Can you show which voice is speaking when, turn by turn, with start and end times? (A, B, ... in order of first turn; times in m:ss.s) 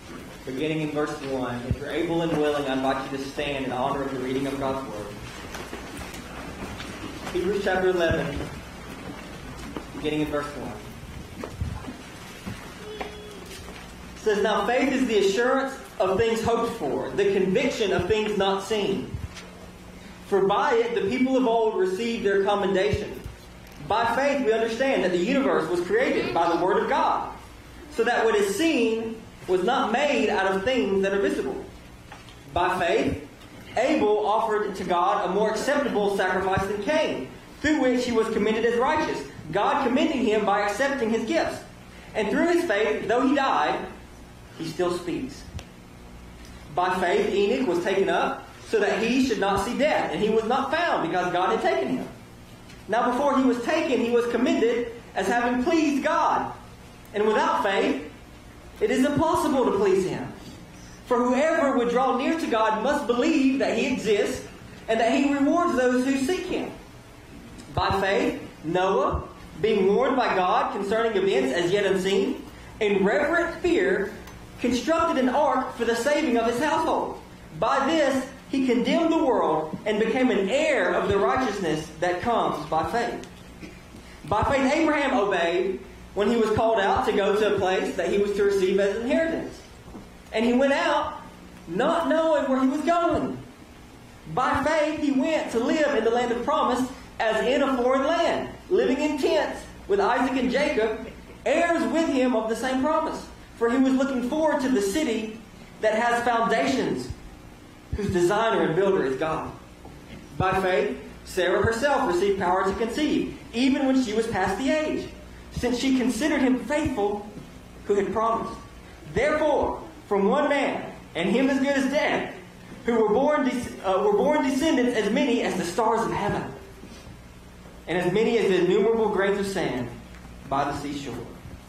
0:00.4-0:05.2 A
0:07.3-0:08.4 A
0:09.9-0:10.8 A
0:14.2-0:19.1 A
0:20.2-0:23.2 A
0:23.8-0:27.3 A
0:27.9-0:31.7 A
0:32.5-0:43.9 A
0:44.6-0:45.4 A
0:46.7-0:52.1 A
0:52.9-0:56.5 A
0:57.1-0:58.1 A
0:58.8-1:00.4 A
1:01.0-1:06.7 A
1:07.7-1:23.2 A
1:24.2-1:29.6 A
1:30.3-1:33.4 A
1:34.2-1:47.1 A
1:47.9-1:49.6 A
1:50.3-1:57.3 A
1:57.8-2:06.6 A
2:07.8-2:11.4 A